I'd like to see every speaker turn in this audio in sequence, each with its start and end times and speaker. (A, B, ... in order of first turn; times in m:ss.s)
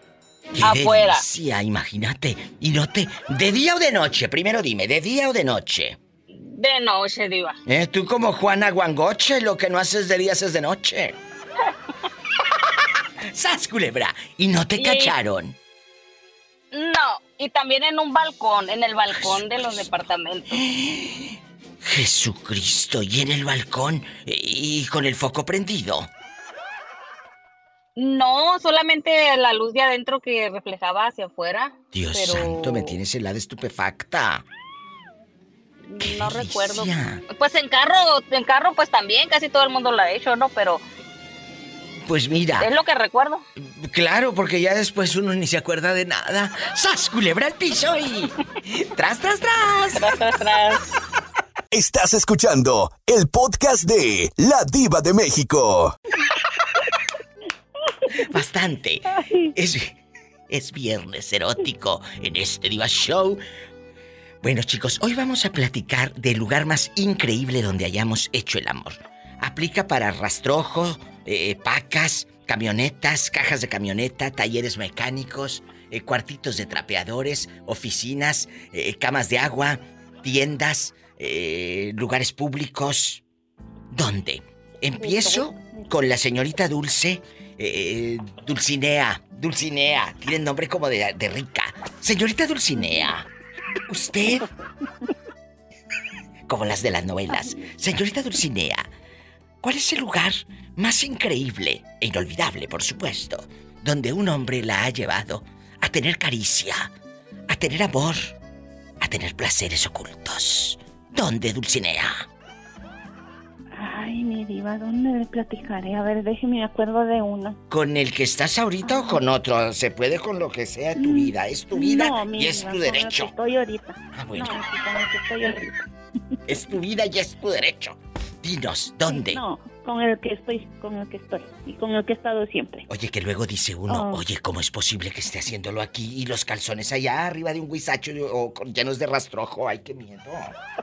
0:00.5-0:06.0 A
0:00.6-0:01.2 B
0:06.4-0:07.6 B
0:07.6-0:11.2 A
0:13.3-0:15.6 A
0:14.8-0:15.1 B
0:16.7-0:20.6 B
0:19.1-0:19.9 A
0:20.5-0:21.3 A
0:21.8-0:26.1 A
0:28.0-0:33.0 B
0:31.9-0:34.4 A
0:35.8-0:40.8 B
0:36.0-0:37.2 A
0:42.0-0:42.7 A
0:42.6-0:43.4 B
0:43.6-0:50.1 A
0:50.0-0:50.8 B
0:51.7-0:56.0 C
0:58.1-1:00.0 A
1:00.5-1:03.4 A
1:04.4-1:23.2 A
1:23.9-1:33.3 A
1:33.9-1:34.4 A
1:36.5-1:38.8 A
1:39.6-1:46.9 A
1:47.5-1:48.4 A
1:49.0-1:52.2 A
1:53.7-1:57.6 D
1:57.7-2:03.3 A
1:58.8-1:59.2 D
2:01.0-2:05.7 D
2:04.1-2:04.6 A
2:06.5-2:09.4 A
2:09.1-2:12.8 D
2:12.9-2:20.5 A
2:13.9-2:14.2 D